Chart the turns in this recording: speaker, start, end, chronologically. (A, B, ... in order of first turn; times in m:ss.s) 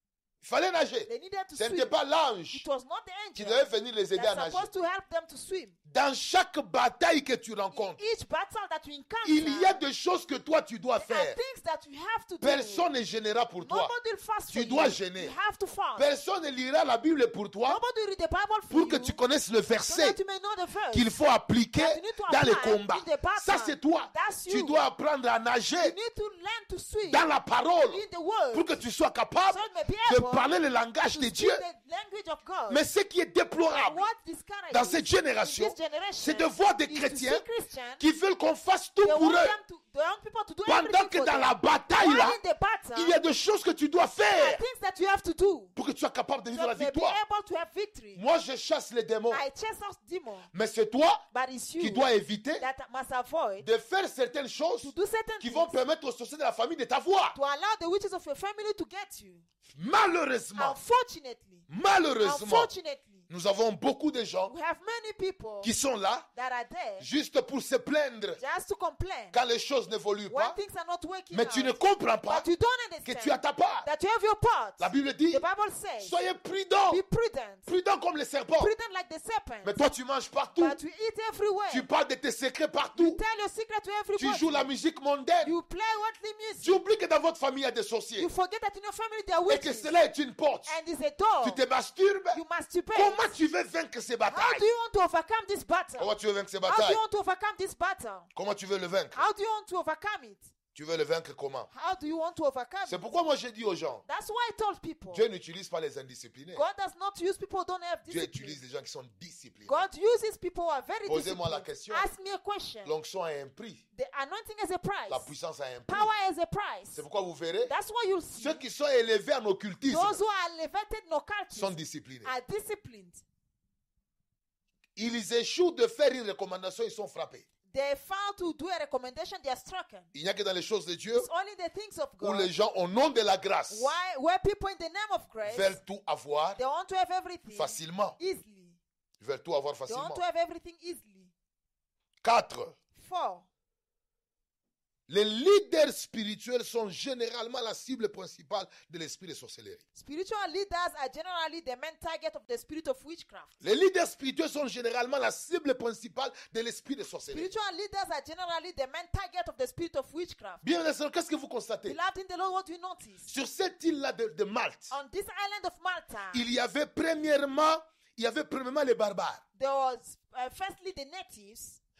0:00.4-0:02.6 A
0:01.1-0:01.9 B
0:02.5-0:05.7 B
0:03.4-0:04.7 A
0:05.9-0:08.0 A
0:07.7-0:09.8 B
0:09.2-0:11.4 A
0:11.0-0:12.9 B
0:12.4-0:13.9 A
0:13.6-0:16.1 B
0:14.5-0:15.3 A
0:16.0-0:17.8 A
0:17.6-0:19.2 B
0:18.7-0:20.2 A
0:19.8-0:21.1 B
0:20.9-0:26.0 A
0:21.8-0:24.8 B
0:25.8-0:27.2 B
0:27.1-0:31.6 A
0:27.8-0:28.8 B
0:29.5-0:30.5 B
0:31.1-0:32.8 B
0:32.7-0:34.0 A
0:33.8-0:38.0 B
0:34.7-0:37.4 A
0:38.0-0:39.6 A
0:39.0-0:43.2 B
0:40.6-0:42.4 A
0:42.9-0:44.6 A
0:44.3-0:45.7 B
0:45.8-0:47.2 A
0:46.5-0:48.2 B
0:48.2-0:49.4 A
0:49.3-0:50.5 B
0:50.5-0:51.2 A
0:51.3-0:52.1 B
0:51.8-0:52.6 A
0:52.6-0:53.6 B
0:53.6-0:57.4 A
0:54.8-0:55.8 B
0:57.3-0:59.4 B
0:59.7-1:00.8 A
1:00.6-1:01.6 B
1:01.7-1:02.7 A
1:02.2-1:03.2 B
1:03.3-1:04.5 A
1:04.5-1:05.7 B
1:05.6-1:06.2 A
1:06.3-1:07.1 B
1:07.0-1:08.4 A
1:08.4-1:09.4 B
1:09.3-1:10.6 A
1:10.3-1:16.2 B
1:11.3-1:12.5 A
1:13.0-1:13.9 A
1:14.8-1:15.4 A
1:16.0-1:17.0 A
1:16.9-1:17.7 B
1:17.7-1:18.7 A
1:18.6-1:19.8 B
1:19.6-1:20.8 A
1:20.6-1:21.8 B
1:21.7-1:23.2 A
1:23.0-1:24.7 B
1:24.2-1:25.5 A
1:25.4-1:26.8 B
1:26.6-1:28.3 A
1:28.2-1:29.9 B
1:29.5-1:30.7 A
1:30.6-1:31.6 B
1:31.4-1:32.4 A
1:32.3-1:33.4 B
1:32.9-1:34.6 A
1:34.3-1:36.1 B
1:36.0-1:37.0 A
1:36.6-1:38.3 B
1:38.3-1:39.2 A
1:39.1-1:40.5 B
1:40.7-1:41.7 A
1:41.7-1:43.1 B
1:42.8-1:44.0 A
1:44.1-1:45.2 B
1:45.1-1:46.6 A
1:46.5-1:48.6 B
1:48.1-1:49.8 A
1:49.6-1:52.9 B
1:51.1-1:52.1 A
1:52.8-1:53.8 A
1:53.9-1:55.3 B
1:55.1-1:56.1 A
1:55.9-1:57.0 B
1:56.9-1:57.7 A
1:57.6-1:58.6 B
1:58.4-2:00.2 A
1:59.9-2:03.2 B
2:01.5-2:02.3 A
2:05.0-2:07.4 A
2:07.7-2:10.1 B
2:10.1-2:11.3 A
2:11.1-2:12.5 B
2:12.2-2:13.9 A
2:13.7-2:15.8 B
2:15.4-2:16.6 A
2:16.6-2:18.8 B
2:17.5-2:18.2 A
2:19.2-2:20.2 A
2:19.9-2:21.3 B
2:22.2-2:22.7 A
2:22.9-2:23.4 B
2:25.1-2:29.8 A
2:29.9-2:33.5 B
2:33.6-2:37.5 A
2:37.3-2:40.6 B
2:40.6-2:42.0 A
2:41.8-2:43.3 B
2:43.3-2:44.9 A
2:44.9-2:46.4 B
2:46.3-2:49.4 A
2:49.6-2:51.8 B